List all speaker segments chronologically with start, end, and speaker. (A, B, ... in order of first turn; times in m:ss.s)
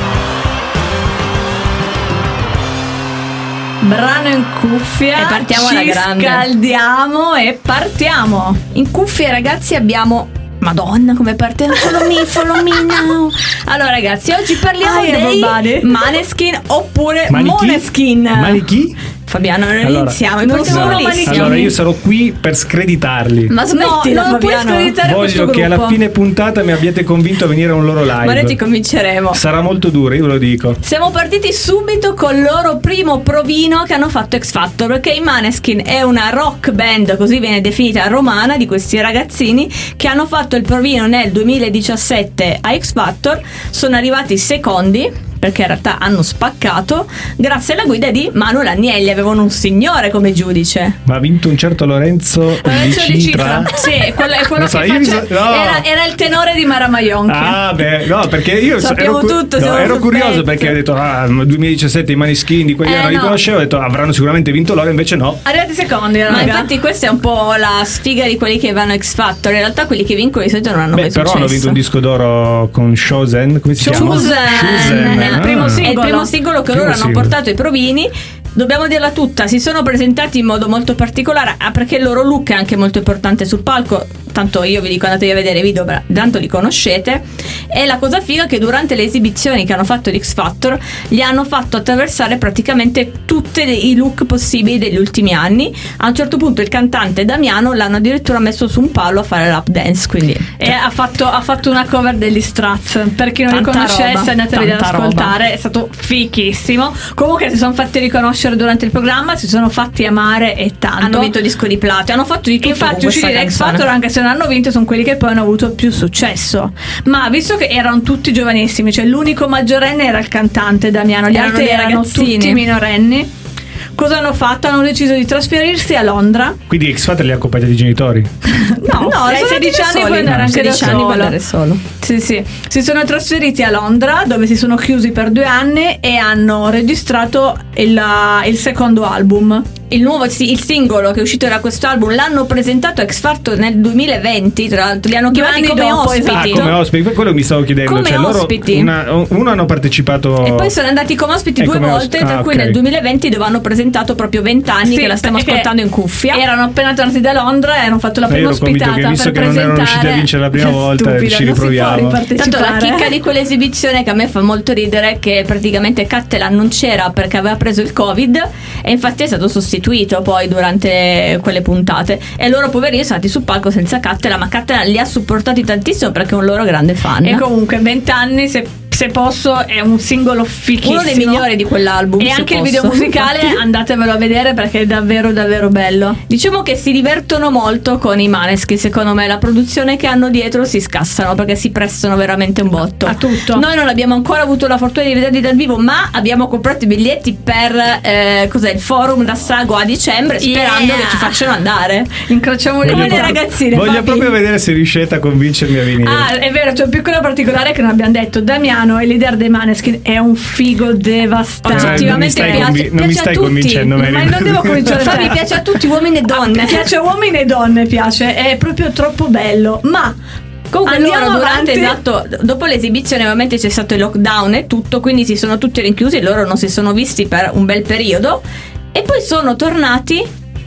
0:03.8-0:08.6 A
0:05.2-0:06.4 B
0:08.7-0:18.6 B
0:12.3-0:13.0 A
0:14.8-0:15.9 A
0:17.3-0:19.0 C
0:19.3-0:21.7 B
0:19.8-0:23.5 C
0:20.4-0:21.7 A
0:23.5-0:25.0 B
0:23.7-0:26.0 A
0:25.0-0:28.6 C
0:28.1-0:29.4 B
0:29.3-0:30.8 C
0:30.8-0:51.0 B
0:51.0-0:53.8 C
0:52.6-0:57.6 A
0:54.5-0:55.8 C
0:57.3-1:05.4 C
0:58.8-1:00.7 B
1:02.8-1:03.4 A
1:05.4-1:06.7 A
1:06.3-1:11.8 B
1:10.9-1:15.9 C
1:13.8-1:16.3 A
1:13.8-1:40.7 B
1:16.7-1:17.3 C
1:40.6-1:51.3 A
1:43.5-1:45.3 B
1:51.0-1:53.8 B
1:52.6-2:03.3 A
2:01.3-2:02.6 B
2:04.0-2:06.6 A
2:06.7-2:08.3 C
2:08.5-2:11.3 A
2:08.8-2:11.8 B
2:10.2-2:11.0 C
2:12.0-2:19.6 A
2:19.9-2:26.8 B
2:25.3-2:26.8 A
2:26.3-2:30.7 C
2:27.8-2:28.9 B
2:30.4-2:36.4 B
2:31.6-2:32.8 C
2:34.8-2:35.7 A
2:36.3-2:43.2 A
2:38.3-2:42.2 C
2:42.4-2:57.4 B
2:57.2-3:01.4 A
3:00.8-3:03.6 B
3:02.2-3:06.2 A
3:06.3-3:22.2 B
3:13.0-3:13.6 A
3:20.4-3:21.6 A
3:22.2-3:24.0 A
3:22.8-3:24.3 B
3:22.8-3:26.3 C
3:25.9-3:32.8 A
3:31.6-3:34.0 B
3:31.7-3:35.3 C
3:33.9-3:35.4 A
3:34.9-3:36.9 B
3:36.3-3:40.2 A
3:40.7-3:48.4 B
3:40.8-3:42.0 A
3:48.9-3:50.2 B